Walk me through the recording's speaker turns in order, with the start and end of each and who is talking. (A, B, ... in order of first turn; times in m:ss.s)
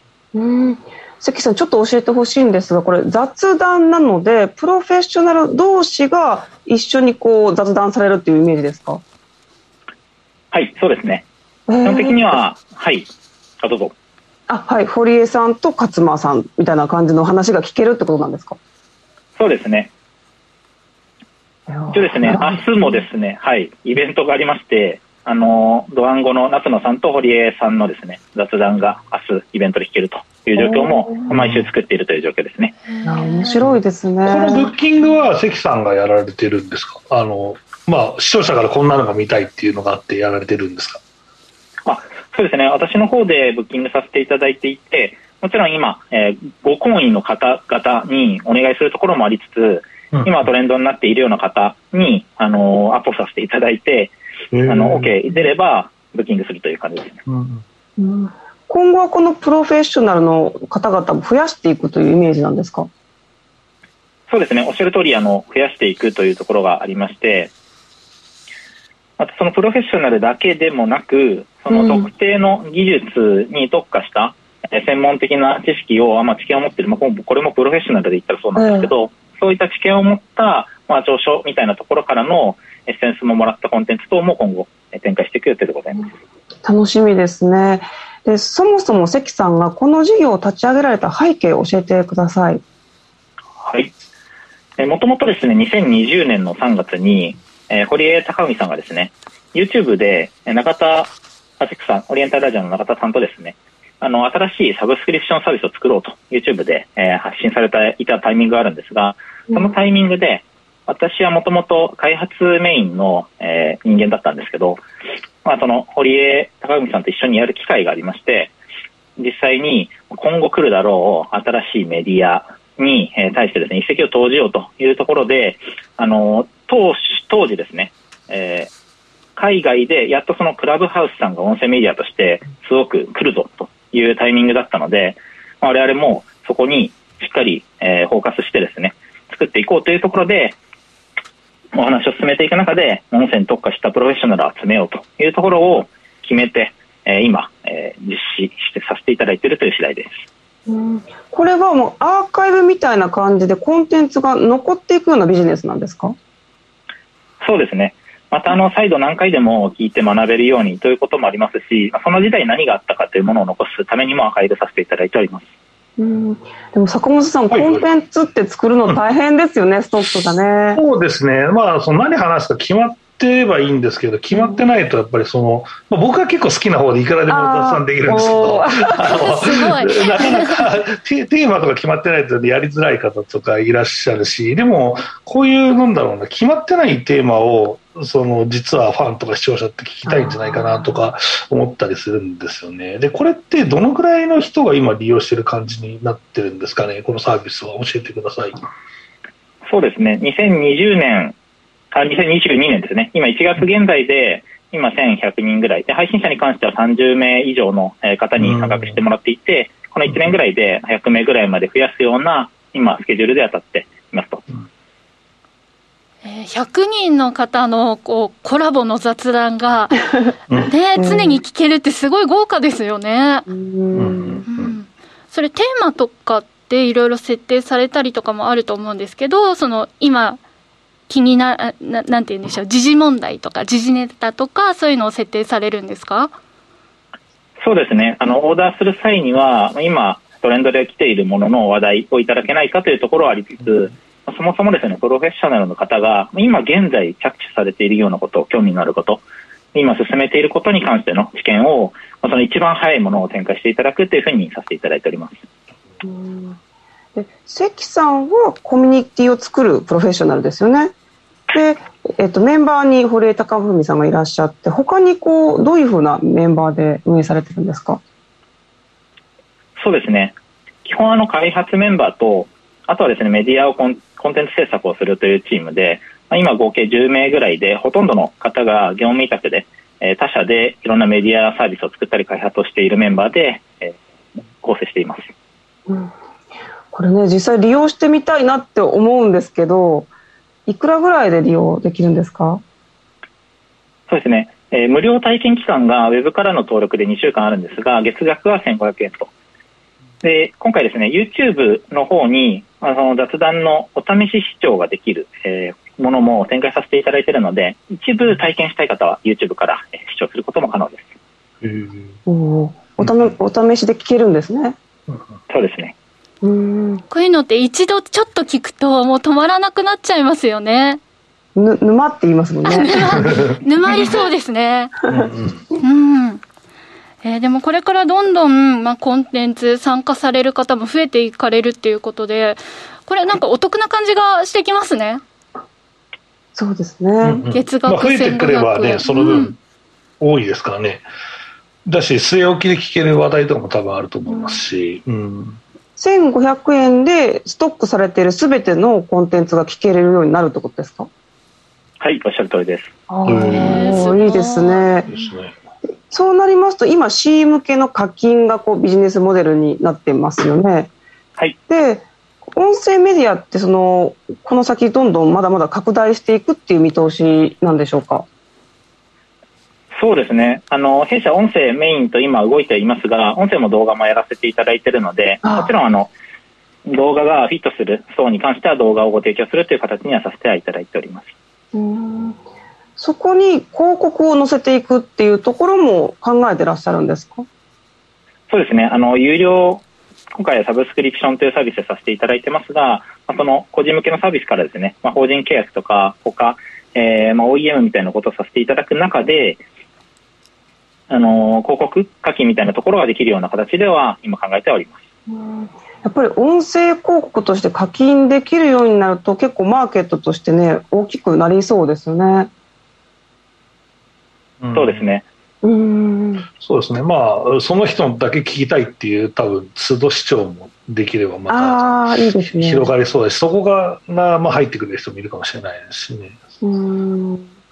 0:00.3-0:09.0 A
0:10.5-0:11.2 B
0:11.7-0:12.4 A
0:11.8-0:13.1 B
0:13.6-0:13.9 B
0:14.5-0:18.6 A
0:19.4-0:19.9 B
0:21.7-0:22.9 A
0:21.9-0:32.8 B
0:30.6-0:31.3 A
0:31.3-0:31.7 C
0:32.9-0:33.6 D
0:33.0-0:34.7 A
0:33.6-0:41.0 C
0:41.8-0:54.1 B
0:50.1-0:50.5 C
0:54.5-0:55.2 C
0:54.7-0:57.2 B
0:57.3-0:57.6 C
0:58.0-1:02.9 A
1:04.3-1:07.5 B
1:09.2-1:26.1 B
1:11.7-1:12.1 A
1:18.6-1:18.9 A
1:26.6-1:32.6 A
1:33.6-1:33.9 B
1:34.8-1:54.8 B
1:55.4-1:58.5 B
1:59.2-2:08.7 B
2:09.4-2:20.6 B
2:21.7-2:30.2 B
2:30.7-2:36.1 A
2:37.4-2:45.5 B
2:46.0-2:50.8 A
2:47.5-2:47.8 C
2:50.7-3:18.6 C
2:54.3-2:54.6 A
2:57.3-2:59.2 A
2:59.1-3:00.6 D
3:10.0-3:11.0 A
3:19.7-3:21.4 B
3:21.9-3:34.4 B
3:28.4-3:29.0 C
3:36.2-3:40.0 D
3:40.6-3:43.4 D
3:41.0-3:41.4 A
3:43.5-3:44.4 A
3:43.9-3:44.8 C
3:44.5-3:50.4 D
3:51.1-3:56.3 D
3:57.6-4:09.2 B
4:09.7-4:15.4 B
4:16.0-4:16.6 A
4:17.2-4:20.9 A
4:21.5-4:28.0 A
4:29.8-4:44.0 B
4:44.6-4:45.3 B
4:45.9-4:46.1 A
4:46.9-4:50.1 A
4:50.7-4:52.6 A
4:54.1-4:59.3 B
5:00.2-5:11.1 B
5:11.6-5:12.2 C
5:12.3-5:14.8 A
5:13.0-5:13.3 C
5:15.5-5:15.9 B
5:16.4-5:17.0 A
5:17.1-5:21.0 D
5:21.6-5:23.4 A
5:22.6-5:24.9 D
5:23.2-5:23.5 C
5:25.1-5:25.6 C
5:25.8-5:26.4 D
5:27.2-5:35.2 D
5:36.5-5:37.4 A
5:37.2-5:39.6 C
5:37.5-5:39.5 D
5:40.2-5:41.0 C
5:41.9-5:45.6 C
5:44.3-5:44.6 A
5:46.0-5:51.1 A
5:52.0-5:52.9 B
5:53.1-5:55.1 A
5:53.2-5:54.0 C
5:53.5-5:55.3 D
5:55.0-5:55.5 C
5:56.1-6:00.9 A
6:01.7-6:08.2 A
6:10.0-6:16.1 B
6:15.4-6:15.7 A
6:16.9-6:21.3 B
6:21.7-6:22.4 A
6:23.0-6:27.4 A
6:28.5-6:39.6 B
6:41.1-6:45.0 B
6:45.3-6:52.5 A
6:54.6-6:55.1 C
6:54.7-6:55.2 B
6:55.6-6:56.5 A
6:56.6-7:01.9 C
7:01.5-7:02.9 A
7:02.4-7:06.4 C
7:06.6-7:07.5 A